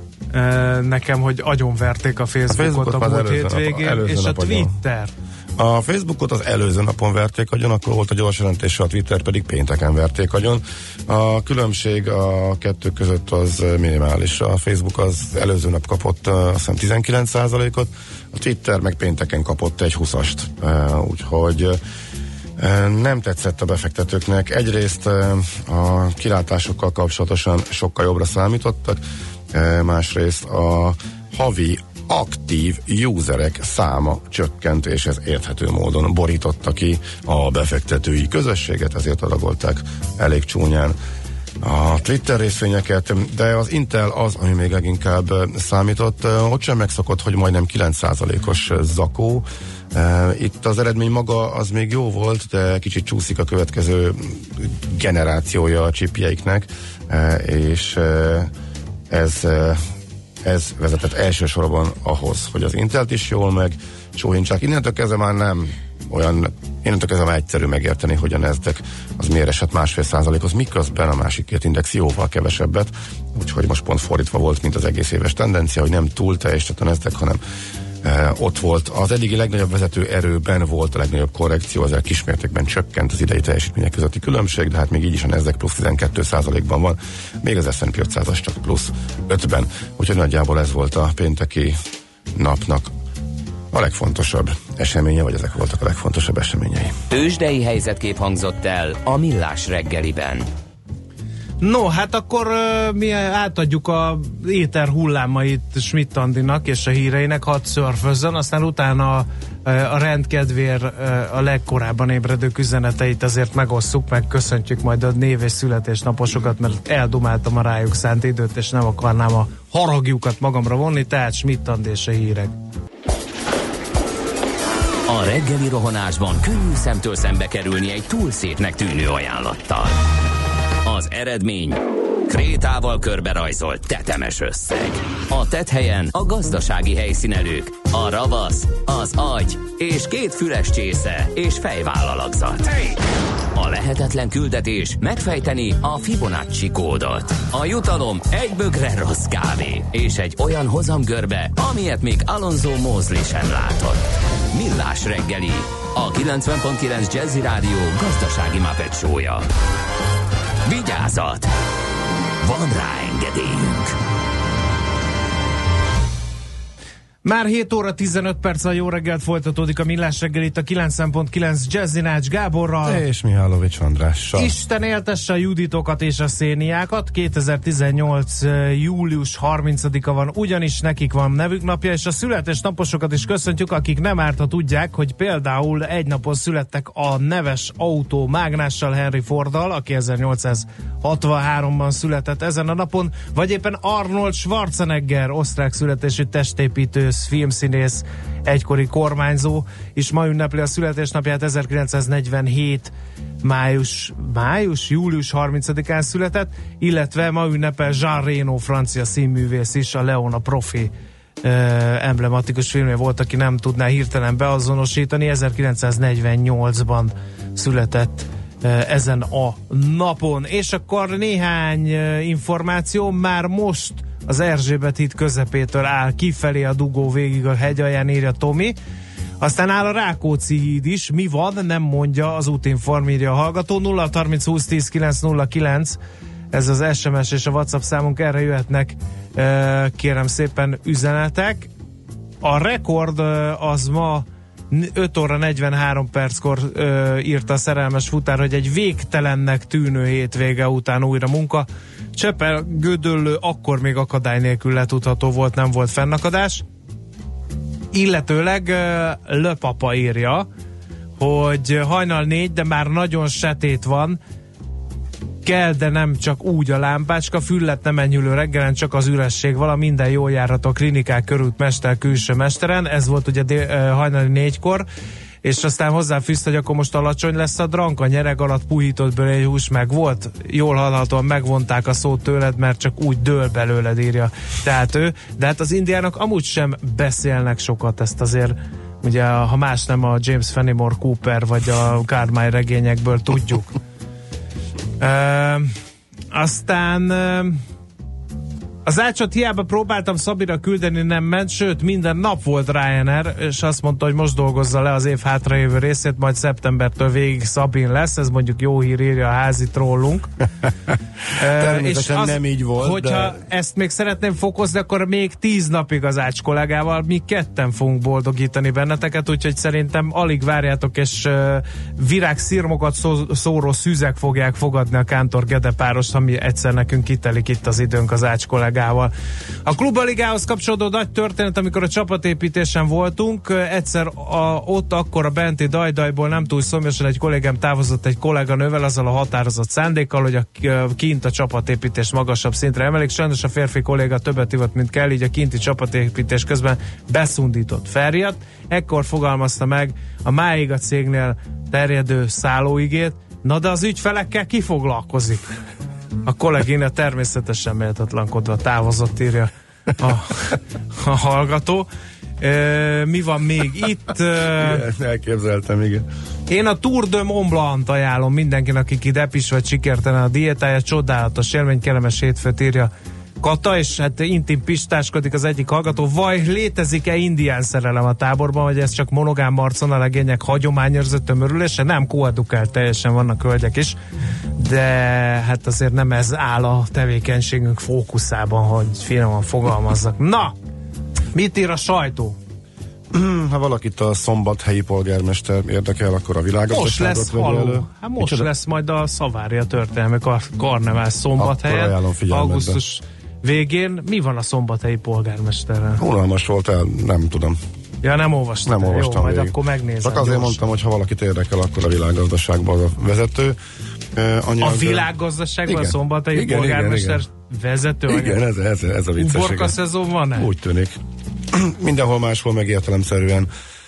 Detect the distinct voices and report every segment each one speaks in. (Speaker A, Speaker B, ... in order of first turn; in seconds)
Speaker A: 0.3-5.1, 101.6-122.5, 167.2-173.0, 174.3-202.9, 203.4-210.9, 211.4-228.8, 229.4-236.0, 236.5-241.7, 242.4-256.6, 257.9-260.5, 261.2-264.2, 265.4-274.9, 275.4-293.8, 295.0-295.7, 296.3-297.6, 298.9-310.3, 311.4-329.1, 329.7-355.5, 356.2-361.9, 362.4-364.9, 366.5-372.9, 373.4-384.0, 384.6-390.6, 391.4-392.4, 396.7-406.0, 408.0-410.6, 414.6-418.4, 419.2-420.5
Speaker B: 2.5-4.8, 5.6-21.8, 22.6-29.0, 29.5-41.0, 41.6-58.5, 59.1-59.8, 60.4-77.4, 78.0-91.8, 92.3-92.9, 93.7-97.0, 172.8-174.5, 311.3-313.4, 364.4-366.1, 393.1-398.5, 401.4-402.8, 406.0-407.6, 408.7-413.6, 414.1-415.1, 415.7-417.2, 418.1-419.8, 420.4-420.9, 421.5-423.5
Speaker C: 97.1-100.5, 125.1-130.0, 130.8-143.0, 143.6-159.5, 160.7-161.5, 162.4-164.0